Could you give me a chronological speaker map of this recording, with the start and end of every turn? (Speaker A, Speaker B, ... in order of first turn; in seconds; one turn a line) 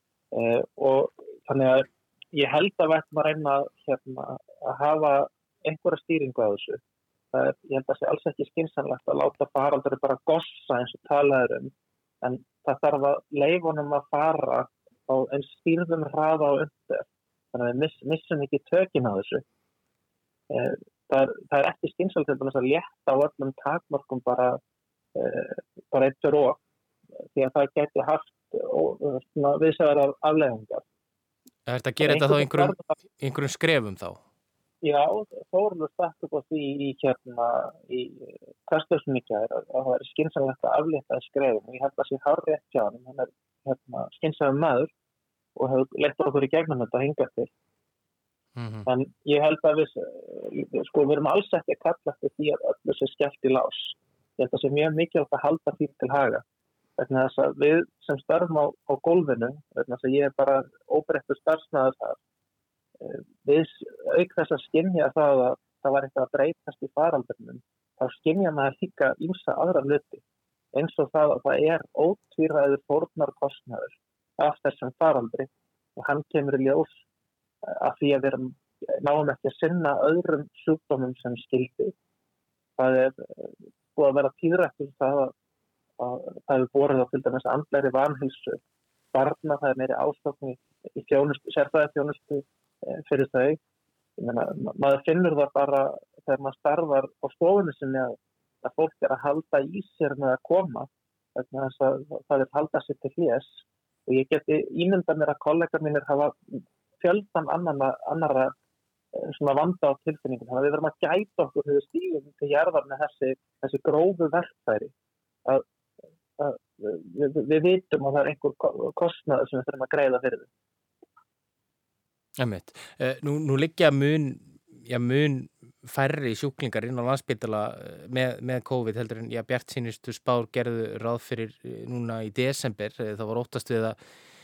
Speaker A: 0.3-6.8
Speaker A: 7.3-19.4
Speaker A: 20.5-24.6
Speaker A: 25.1-26.6
Speaker A: 27.3-30.8
Speaker B: 31.7-34.2
Speaker A: 32.0-32.9
Speaker A: 34.8-44.9
Speaker A: 45.5-47.5
Speaker B: 48.5-48.9
Speaker A: 48.9-56.4
Speaker A: 57.0-62.2
Speaker A: 63.0-70.2
Speaker A: 70.7-77.0
Speaker A: 77.6-81.9
Speaker A: 82.8-85.3
Speaker A: 86.0-88.6
Speaker A: 89.1-93.6
Speaker A: 94.2-108.5
Speaker A: 109.1-114.9
Speaker A: 116.4-120.5
Speaker B: 122.4-134.0